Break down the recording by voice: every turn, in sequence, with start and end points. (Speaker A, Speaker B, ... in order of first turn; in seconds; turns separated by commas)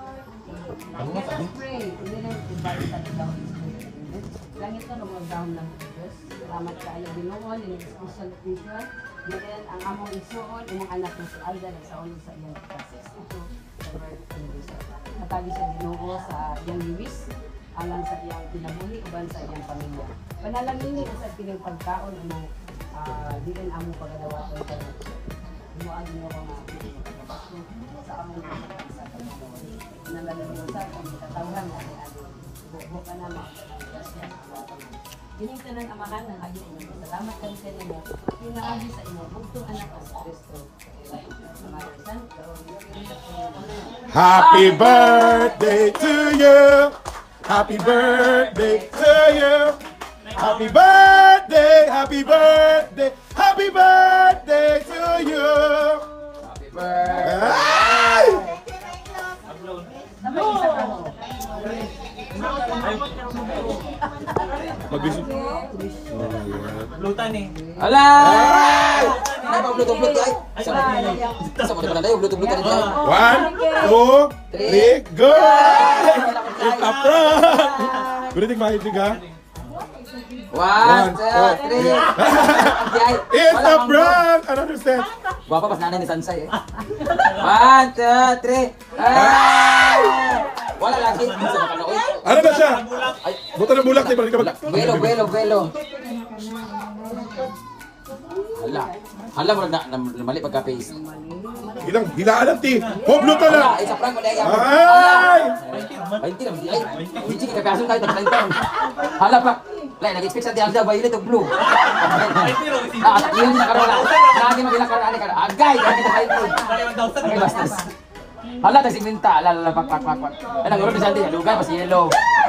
Speaker A: 1.0-1.5, Speaker B: 1.6-13.4, Speaker B: 14.0-22.4, Speaker B: 23.1-24.9, Speaker B: 25.8-27.5, Speaker B: 28.1-29.5, Speaker B: 30.2-32.2, Speaker B: 32.7-34.5, Speaker B: 35.5-40.5, Speaker B: 41.7-42.4, Speaker C: 44.1-49.8, Speaker C: 50.3-56.1, Speaker A: 56.4-58.2, Speaker C: 57.2-58.5, Speaker D: 59.5-59.8, Speaker D: 62.8-63.1, Speaker C: 64.8-65.4, Speaker C: 66.1-66.9, Speaker D: 67.0-67.6, Speaker A: 67.8-73.1, Speaker C: 68.2-68.8, Speaker D: 70.6-71.9, Speaker D: 72.6-73.0, Speaker C: 73.0-79.2, Speaker A: 74.5-77.4, Speaker A: 80.5-84.2, Speaker C: 80.8-85.2, Speaker A: 85.5-86.5, Speaker A: 87.2-92.2, Speaker C: 89.1-89.5, Speaker C: 92.2-92.9, Speaker D: 92.5-93.1, Speaker A: 93.1-95.7, Speaker C: 93.5-95.3, Speaker A: 98.5-100.9, Speaker B: 101.5-101.8, Speaker C: 101.8-103.7, Speaker D: 102.8-103.4, Speaker A: 103.4-116.6, Speaker C: 104.4-105.6, Speaker D: 105.7-106.2, Speaker D: 106.9-107.3, Speaker D: 111.6-114.6, Speaker D: 116.6-117.7, Speaker A: 117.2-117.8, Speaker A: 118.6-122.1